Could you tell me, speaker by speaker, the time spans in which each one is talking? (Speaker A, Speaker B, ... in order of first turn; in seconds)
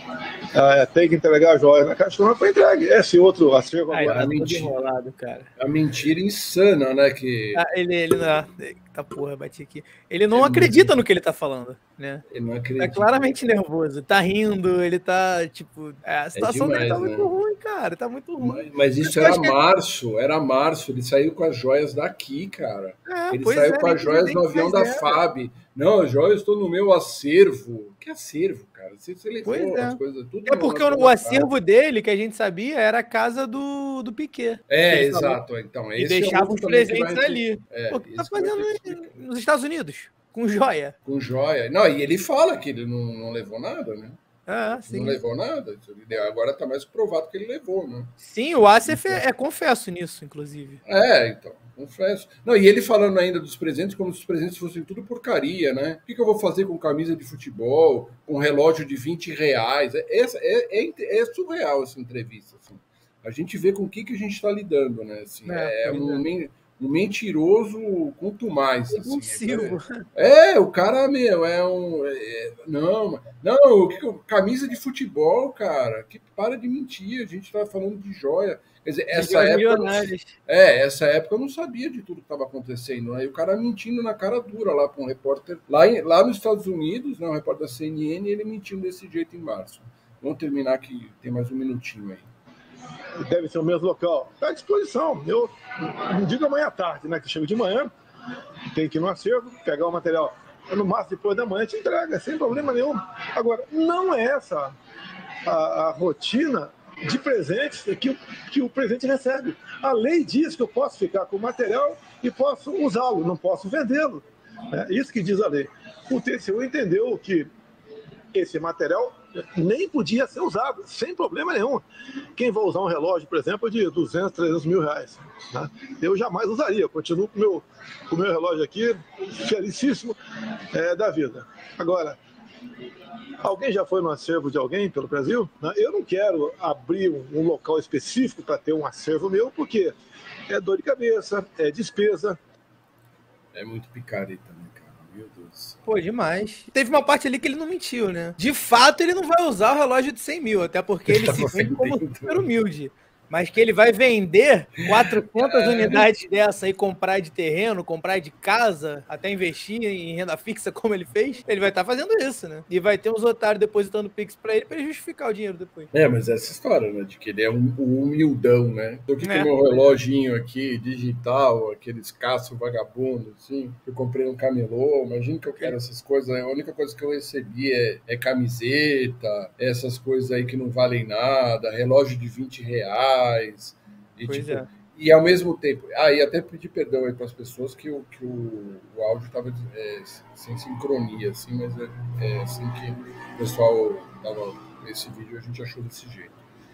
Speaker A: 0.5-4.2, 93.2-97.9, 98.7-104.8, 105.5-117.5, 118.3-121.8, 122.4-130.2, 130.7-132.2, 133.4-139.9, 140.5-142.4
Speaker B: 3.9-5.5, 7.6-12.2, 12.8-19.6, 23.1-25.2, 29.4-35.4, 36.0-40.9, 44.5-45.2, 48.2-50.8, 65.5-66.2, 68.9-70.0, 79.1-80.3, 145.9-165.9, 169.2-169.6, 184.3-184.7
Speaker C: 4.0-4.8, 5.6-7.6, 10.3-11.0, 12.3-13.2, 16.4-17.4, 18.4-31.5, 34.7-39.2, 41.0-44.2, 44.8-48.1, 48.9-49.2, 50.9-92.3, 143.5-145.8, 151.1-152.5, 155.3-156.1, 165.9-196.3